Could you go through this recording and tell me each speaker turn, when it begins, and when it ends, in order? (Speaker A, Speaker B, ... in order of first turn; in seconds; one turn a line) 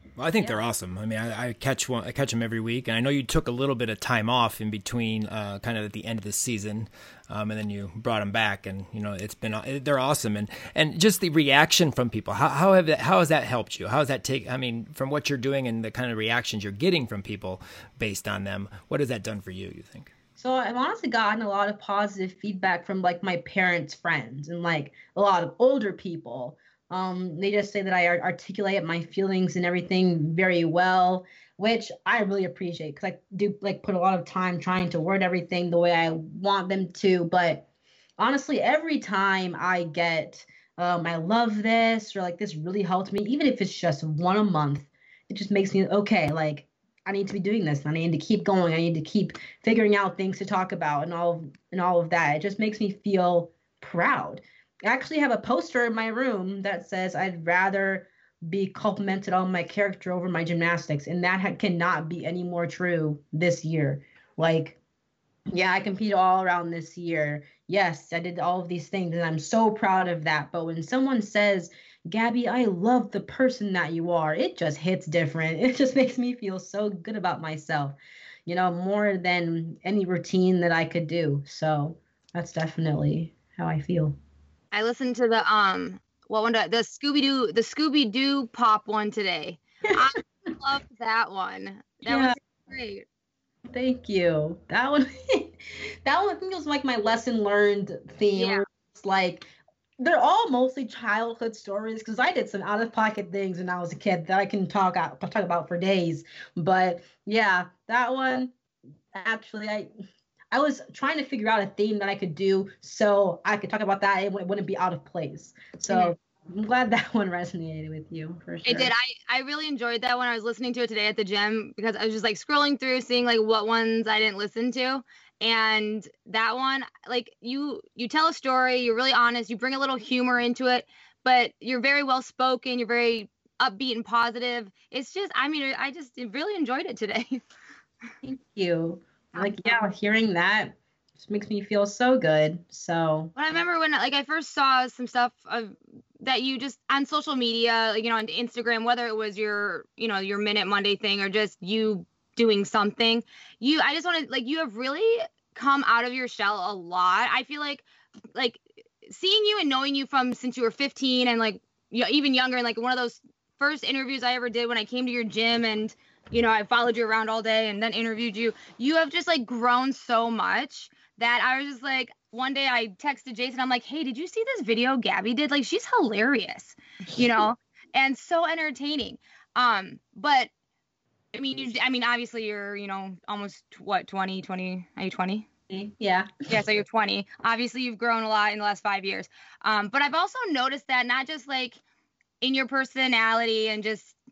Speaker A: 0.2-20.1
Speaker B: 20.4-37.6
Speaker B: 38.2-64.8
Speaker B: 65.5-78.0
Speaker B: 78.5-84.2
Speaker C: 84.7-93.1
Speaker B: 92.0-92.4
Speaker B: 93.7-95.5
Speaker B: 96.0-99.5
Speaker C: 98.3-98.6
Speaker B: 100.0-108.5
Speaker B: 109.1-109.9
Speaker B: 110.5-118.9
Speaker C: 115.9-116.1
Speaker C: 118.6-137.4
Speaker B: 138.2-143.3
Speaker C: 139.4-139.8
Speaker C: 143.4-180.5
Speaker C: 181.3-185.4
Speaker B: 185.7-186.5
Speaker C: 186.5-191.8
Speaker C: 192.4-194.2